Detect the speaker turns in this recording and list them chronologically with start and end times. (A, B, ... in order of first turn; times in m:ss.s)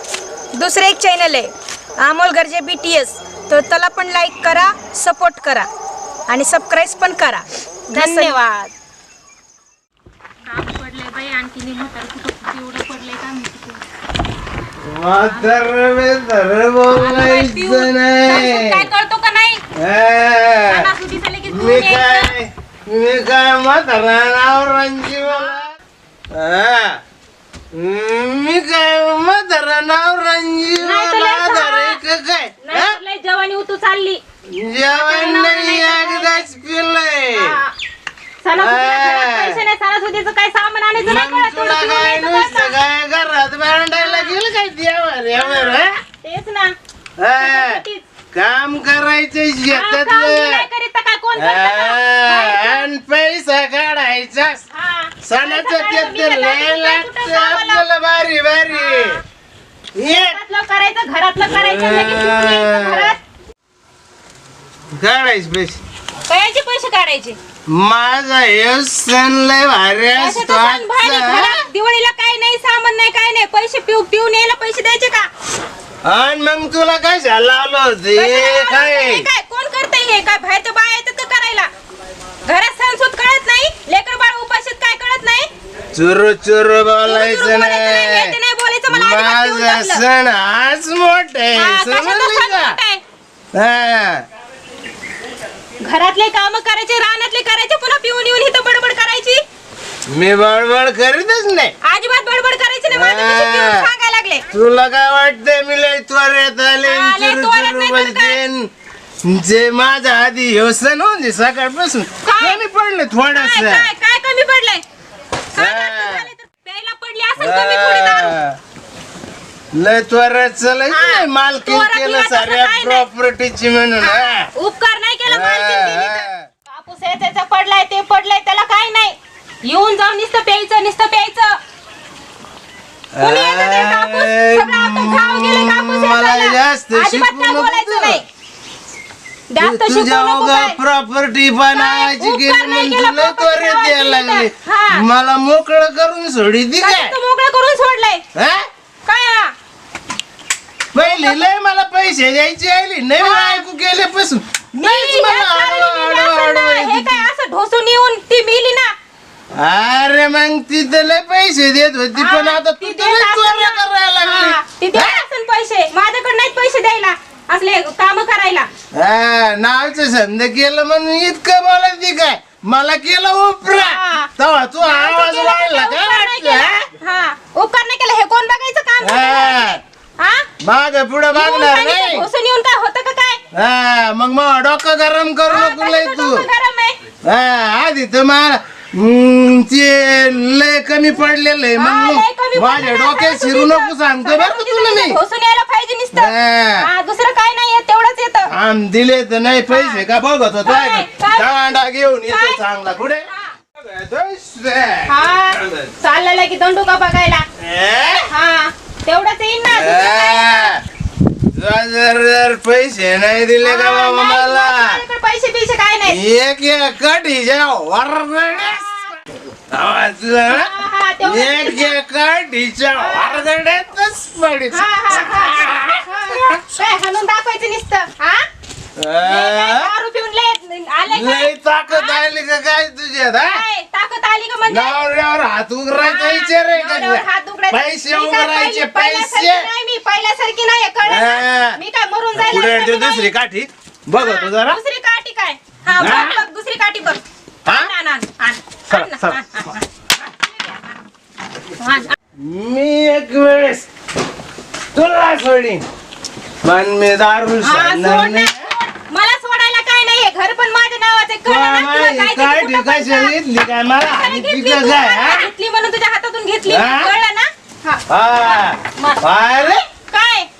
0:00.6-0:05.7 A
0:06.3-0:08.3 A
0:07.9-0:08.7 B
0:10.4-0:13.8 B
0:14.8-0:18.8 C
0:15.2-0:15.6 B
0:16.9-0:19.6 B
0:19.8-0:20.9 C
0:20.7-0:22.3 B
0:21.5-0:25.7 C
0:26.3-0:27.0 C
0:27.7-0:33.0 C
0:30.8-0:32.0 B
0:32.6-0:34.2 B
0:34.5-0:37.6 C
0:34.9-0:36.4 B
0:37.3-0:37.7 B
0:38.4-0:42.8 B
0:38.6-0:39.6 C
0:41.0-0:45.9 C
0:44.0-0:44.4 B
0:45.4-0:46.7 B
0:47.2-0:50.6 C
0:47.4-0:48.0 B
0:49.7-0:52.9 B
0:51.4-0:54.6 C
0:54.7-0:57.8 B
0:55.2-0:59.2 C
0:58.7-0:59.2 B
1:00.0-1:00.4 C
1:00.0-1:03.2 B
1:01.4-1:03.1 C
1:04.9-1:05.8 C
1:06.3-1:07.4 B
1:07.7-1:11.6 C
1:10.2-1:15.3 B
1:16.0-1:19.2 C
1:18.1-1:21.7 B
1:22.4-1:25.5 B
1:25.9-1:28.3 C
1:27.0-1:30.0 B
1:28.9-1:32.8 C
1:31.6-1:33.0 B
1:33.5-1:34.2 C
1:35.8-1:39.4 B
1:40.1-1:41.7 C
1:41.8-1:44.4 B
1:42.9-1:43.9 C
1:44.5-1:48.7 C
1:46.8-1:48.4 B
1:49.2-1:53.9 C
1:52.2-1:52.6 B
1:53.3-1:54.8 B
1:55.5-1:58.3 B
1:55.5-1:56.3 C
1:57.4-1:58.6 C
1:59.7-2:04.5 C
2:00.9-2:03.0 B
2:04.0-2:11.6 B
2:05.2-2:06.4 C
2:13.1-2:18.2 C
2:13.2-2:18.2 B
2:19.5-2:20.8 B
2:19.6-2:27.1 C
2:21.7-2:25.0 B
2:26.8-2:28.2 B
2:28.3-2:28.6 C
2:29.0-2:29.5 B
2:30.9-2:37.2 C
2:31.0-2:31.4 B
2:33.2-2:33.6 B
2:34.8-2:38.9 B
2:39.6-2:45.2 C
2:42.1-2:48.7 B
2:48.9-2:56.8 C
2:53.7-2:54.3 B
2:54.8-3:00.5 B
2:59.0-2:59.8 C
3:00.6-3:02.3 C
3:01.3-3:03.4 B
3:03.5-3:06.4 C
3:05.5-3:07.0 B
3:07.2-3:15.2 C
3:11.8-3:18.5 B
3:16.1-3:16.9 C
3:18.5-3:25.9 C
3:19.7-3:20.0 B
3:20.6-3:21.5 B
3:22.3-3:22.6 B
3:25.1-3:27.4 B
3:27.6-3:28.3 C
3:28.3-3:30.7 B
3:29.7-3:30.8 C
3:31.5-3:35.0 C
3:33.6-3:36.2 B
3:36.1-3:38.9 C
3:38.6-3:39.1 B
3:39.7-3:40.7 C
3:40.5-3:42.0 B
3:41.2-3:46.6 C
3:43.0-3:43.4 B
3:44.7-3:48.4 B
3:49.0-3:49.9 C
3:49.2-3:52.2 B
3:51.1-3:53.6 C
3:53.4-3:55.0 B
3:54.7-3:59.7 C
3:56.0-4:03.3 B
4:01.0-4:01.8 C
4:02.3-4:04.8 C
4:04.1-4:10.8 B
4:06.0-4:06.4 C
4:08.9-4:09.4 C
4:11.8-4:12.1 B
4:12.4-4:13.9 C
4:14.9-4:15.8 C
4:16.6-4:18.7 C
4:17.6-4:23.4 B
4:21.4-4:25.5 C
4:24.0-4:30.5 B
4:26.6-4:27.1 C
4:28.1-4:29.8 C